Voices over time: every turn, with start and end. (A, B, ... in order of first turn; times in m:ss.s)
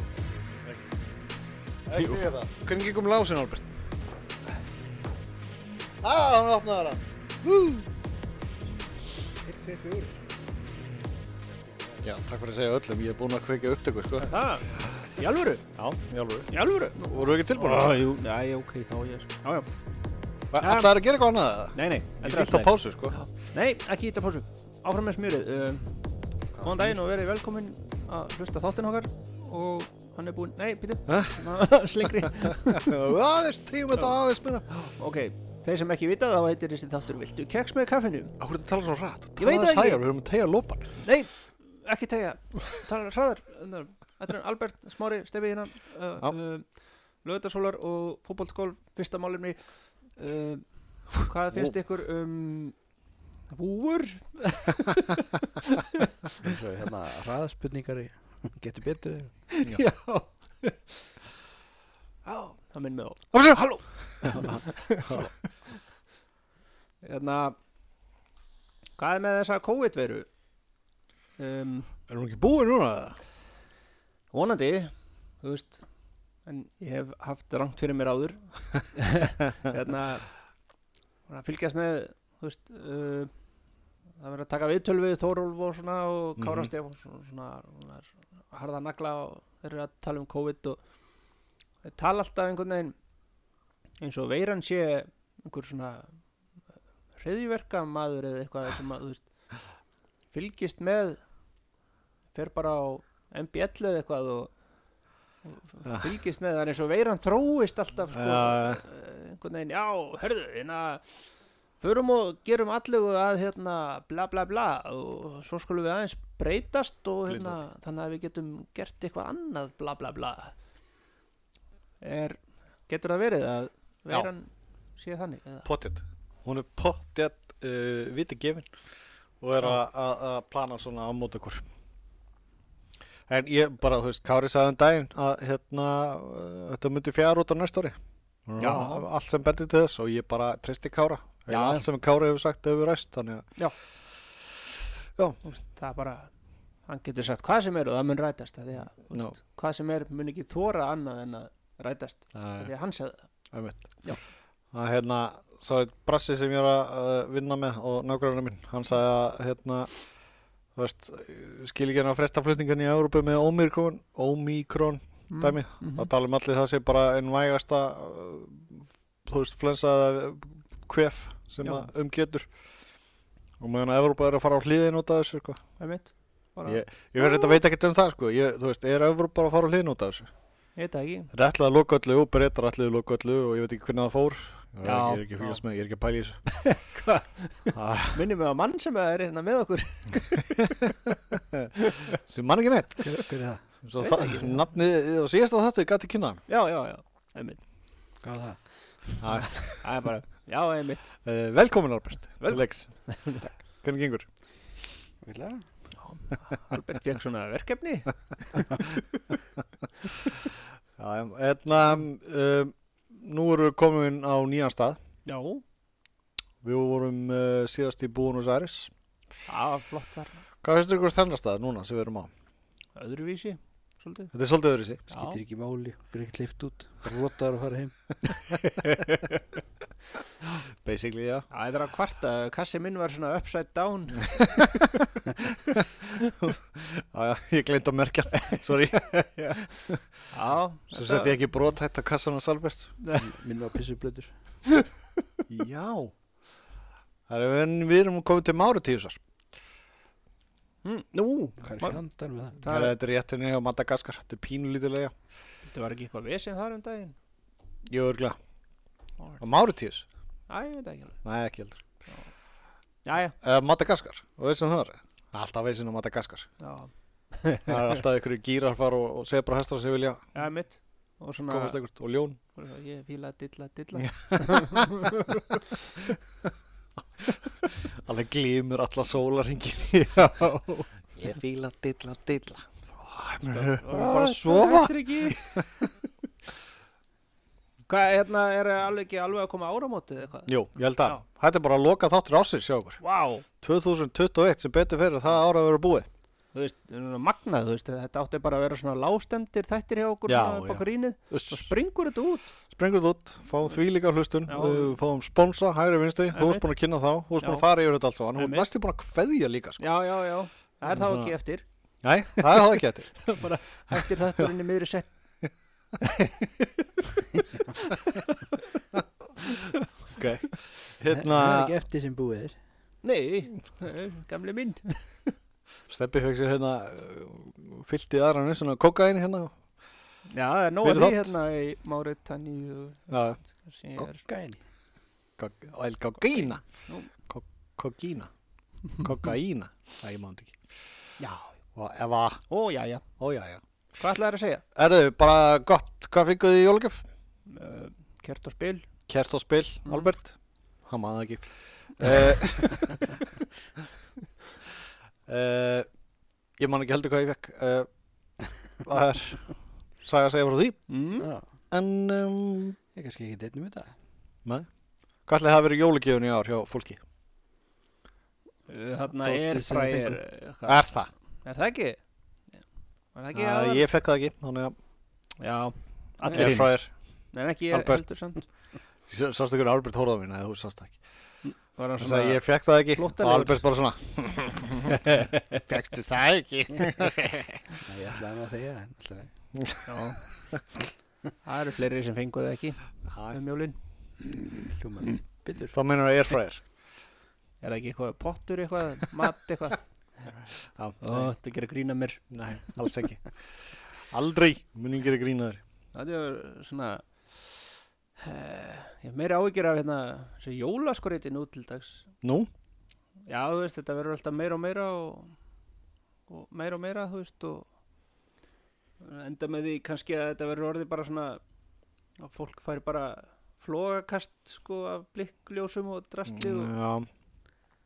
0:01.8-0:03.7 A
0:06.0-0:07.9 A
0:09.4-0:10.2 A
0:12.0-0:14.8 A
0:14.2-0:15.6 B
0:15.7-0:16.5 A
0:16.5-0:19.7 B
0:17.0-0:18.0 A
0:20.5-0:23.2 A
0:20.6-0:20.9 B
0:21.7-0:26.0 B
0:26.5-0:27.0 A
0:26.6-0:33.1 B
0:31.1-0:31.4 A
0:32.0-0:34.6 A
0:34.7-0:38.4 B
0:38.4-0:40.9 A
0:39.4-0:40.0 B
0:41.0-0:46.6 B
0:47.2-0:49.6 B
0:50.2-0:52.8 B
0:53.5-0:56.1 B
0:56.4-0:59.3 C
0:59.5-1:00.8 B
1:02.2-1:05.3 B
1:03.3-1:03.6 A
1:04.2-1:05.3 A
1:07.0-1:07.6 B
1:09.0-1:10.3 B
1:11.4-1:11.9 B
1:12.1-1:13.2 A
1:14.3-1:15.8 B
1:16.4-1:20.3 B
1:21.3-1:23.3 B
1:24.2-1:30.8 B
1:26.4-1:26.7 A
1:31.8-1:32.9 B
1:34.0-1:36.1 B
1:37.2-1:39.2 B
1:40.3-1:41.2 B
1:42.3-1:44.5 B
1:45.4-1:51.0 B
1:48.1-1:48.8 A
1:51.8-2:00.5 B
1:57.3-1:57.6 A
2:02.0-2:05.7 B
2:05.6-2:08.7 A
2:09.4-2:11.6 A
2:13.3-2:23.5 A
2:18.6-2:19.0 B
2:21.5-2:21.8 B
2:25.4-2:26.3 B
2:26.9-2:33.3 B
2:32.3-2:32.7 A
2:33.5-2:34.0 A
2:34.7-2:39.9 A
2:40.7-2:52.5 A
2:45.3-2:46.1 B
2:53.6-2:55.6 A
2:55.8-2:57.5 B
2:56.6-3:00.3 A
3:00.8-3:01.3 B
3:01.3-3:06.4 A
3:04.8-3:05.6 B
3:06.5-3:11.1 B
3:07.7-3:08.2 A
3:10.6-3:13.0 A
3:11.8-3:12.2 B
3:13.0-3:13.6 C
3:13.8-3:16.4 A
3:14.0-3:14.6 B
3:16.5-3:17.6 B
3:18.2-3:19.2 C
3:19.2-3:19.8 A
3:19.6-3:21.1 B
3:21.2-3:24.3 A
3:22.4-3:23.4 B
3:25.2-3:25.6 C
3:26.0-3:29.2 B
3:31.0-3:35.0 A
3:35.2-3:35.6 B
3:36.6-3:38.9 A
3:39.5-3:40.4 B
3:40.6-3:42.3 A
3:43.0-3:44.3 B
3:44.3-3:45.0 A
3:45.1-3:45.4 B
3:45.1-3:48.2 C
3:48.2-3:49.4 B
3:50.8-3:51.4 A
3:51.5-3:55.0 B
3:54.5-3:54.9 A
3:55.7-3:56.3 B
3:56.4-4:00.0 A
3:59.4-3:59.8 B
4:00.3-4:01.4 B
4:00.9-4:02.9 A
4:03.0-4:03.3 B
4:03.2-4:04.3 C
4:05.5-4:06.1 A
4:07.3-4:09.2 A
4:10.8-4:12.0 B
4:11.6-4:12.6 C
4:12.6-4:12.9 B
4:12.6-4:15.1 A
4:15.7-4:17.1 B
4:17.9-4:18.4 A
4:19.4-4:20.0 A
4:20.5-4:21.2 B
4:21.2-4:21.8 A
4:23.0-4:23.4 B
4:23.4-4:26.5 A
4:26.6-4:28.0 B
4:27.7-4:30.2 A
4:30.3-4:31.8 B
4:31.5-4:32.4 A
4:32.5-4:36.1 B
4:34.0-4:35.3 A
4:37.2-4:40.4 A
4:40.2-4:40.9 B
4:41.1-4:45.9 A
4:43.4-4:45.7 B
4:47.9-4:51.2 B
4:50.5-4:53.0 A
4:53.0-4:53.4 B
4:53.6-4:56.1 A
4:56.5-5:02.5 B
5:00.3-5:01.7 A
5:02.7-5:09.8 A
5:04.5-5:05.0 B
5:06.3-5:06.7 B
5:07.4-5:07.6 B
5:08.4-5:08.7 B
5:09.8-5:11.6 B
5:10.9-5:11.3 A
5:12.0-5:13.1 A
5:12.3-5:15.1 B
5:16.0-5:18.8 B
5:19.4-5:19.8 B
5:20.1-5:21.7 A
5:21.1-5:22.6 C
5:23.0-5:25.3 B
5:25.9-5:29.5 A
5:30.3-5:34.3 B
5:30.8-5:31.3 A
5:33.1-5:33.4 A
5:34.3-5:34.6 C
5:35.4-5:36.6 A
5:36.3-5:37.1 B
5:37.3-5:38.3 A
5:39.0-5:40.6 A
5:41.2-5:41.5 B
5:41.8-5:42.4 A
5:42.5-5:43.0 B
5:43.2-5:43.6 A
5:44.0-5:44.6 B
5:44.7-5:47.0 A
5:47.5-5:48.8 B
5:49.1-5:53.1 A
5:49.8-5:50.1 B
5:55.3-5:55.9 A
5:56.6-5:57.9 A
5:58.8-5:59.5 A
6:00.0-6:00.8 A
6:00.9-6:01.3 B
6:01.7-6:02.8 A
6:02.9-6:03.9 C
6:05.3-6:07.0 A
6:08.7-6:10.8 B
6:09.2-6:10.2 C
6:10.6-6:11.1 A
6:11.4-6:12.0 B
6:13.1-6:13.9 B
6:13.3-6:14.7 A
6:15.4-6:16.7 B
6:16.2-6:16.9 A
6:17.3-6:18.4 B
6:17.7-6:18.0 A
6:19.1-6:21.0 A
6:21.4-6:23.6 B
6:22.0-6:27.8 A
6:25.1-6:25.6 B
6:27.8-6:29.3 C
6:29.6-6:29.8 A
6:29.8-6:30.2 B
6:31.4-6:33.8 B
6:33.1-6:33.4 A
6:34.6-6:35.8 C
6:35.7-6:36.6 A
6:37.6-6:42.9 B
6:40.8-6:41.3 A
6:42.3-6:43.3 A
6:44.1-6:45.6 A
6:45.9-6:47.0 B
6:48.2-6:52.1 B
6:52.2-6:52.5 A
6:53.3-6:55.3 B
6:56.3-6:57.7 B
6:59.0-7:01.4 B
7:02.2-7:06.7 B
7:06.3-7:07.1 A